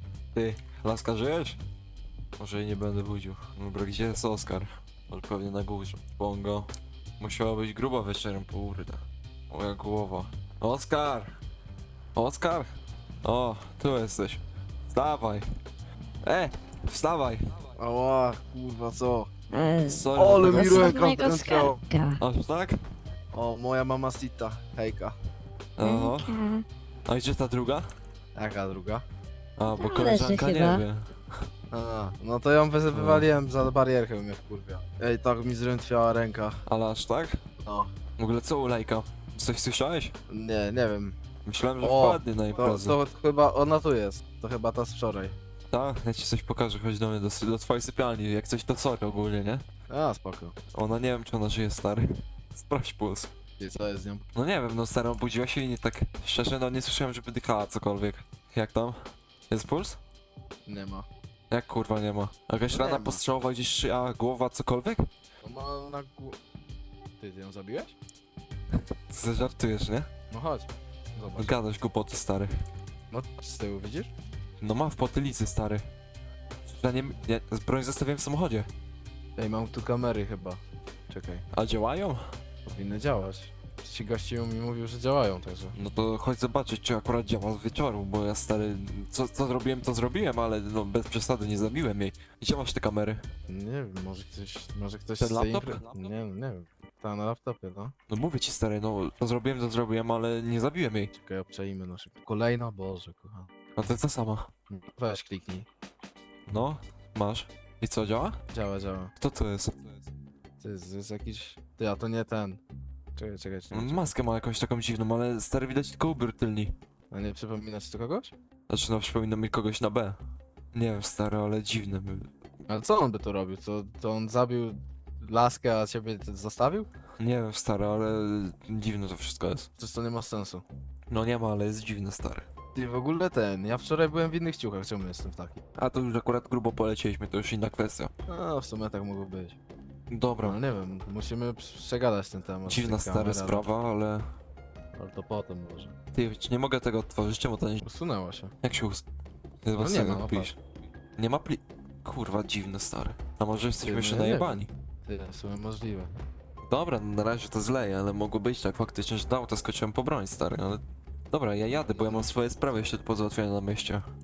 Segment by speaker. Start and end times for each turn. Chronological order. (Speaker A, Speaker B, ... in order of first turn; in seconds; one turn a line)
Speaker A: 0.3-1.6
Speaker A: 2.4-11.3
Speaker A: 12.1-12.7
Speaker A: 13.2-15.5
Speaker A: 16.2-17.4
Speaker B: 17.8-19.3
Speaker C: 19.5-22.2
Speaker A: 19.8-21.0
Speaker B: 20.1-21.8
Speaker A: 22.2-22.8
Speaker B: 23.3-25.1
Speaker A: 25.8-26.3
Speaker C: 25.8-26.6
Speaker A: 27.1-27.9
Speaker B: 28.3-29.0
Speaker A: 29.6-31.4
Speaker C: 29.8-30.9
Speaker B: 31.7-36.6
Speaker A: 32.9-33.3
Speaker A: 36.6-37.4
Speaker B: 37.6-37.9
Speaker A: 38.2-40.1
Speaker B: 40.3-41.2
Speaker A: 41.5-43.0
Speaker B: 41.8-45.4
Speaker A: 45.7-49.6
Speaker B: 49.9-50.5
Speaker A: 50.7-53.3
Speaker B: 53.6-54.3
Speaker A: 54.3-60.0
Speaker B: 60.6-61.1
Speaker A: 61.5-65.1
Speaker B: 62.7-63.2
Speaker B: 65.4-66.4
Speaker B: 67.2-68.0
Speaker A: 69.1-70.1
Speaker B: 70.3-71.5
Speaker A: 71.4-72.5
Speaker B: 73.1-74.1
Speaker A: 74.6-75.8
Speaker A: 76.7-78.7
Speaker B: 79.4-81.5
Speaker A: 81.5-82.2
Speaker B: 82.7-85.7
Speaker A: 85.7-93.2
Speaker B: 93.5-97.9
Speaker A: 95.2-95.9
Speaker A: 98.1-101.1
Speaker B: 101.1-103.5
Speaker A: 103.8-104.5
Speaker B: 104.7-105.7
Speaker A: 106.5-108.4
Speaker B: 108.5-109.1
Speaker A: 109.2-110.0
Speaker B: 110.6-112.6
Speaker B: 113.2-114.1
Speaker A: 113.7-116.7
Speaker B: 117.1-118.3
Speaker A: 118.7-120.2
Speaker A: 120.7-122.3
Speaker B: 122.7-126.9
Speaker A: 127.2-129.7
Speaker B: 129.8-130.6
Speaker A: 131.1-132.5
Speaker B: 132.7-135.6
Speaker A: 135.8-138.1
Speaker B: 138.3-139.6
Speaker A: 140.1-140.6
Speaker B: 140.4-143.7
Speaker A: 142.7-144.3
Speaker B: 144.9-145.9
Speaker A: 146.1-147.8
Speaker B: 147.8-148.5
Speaker A: 148.6-149.0
Speaker A: 149.6-150.6
Speaker B: 149.8-150.5
Speaker A: 151.2-154.7
Speaker B: 153.8-156.1
Speaker A: 156.7-164.1
Speaker B: 161.9-162.3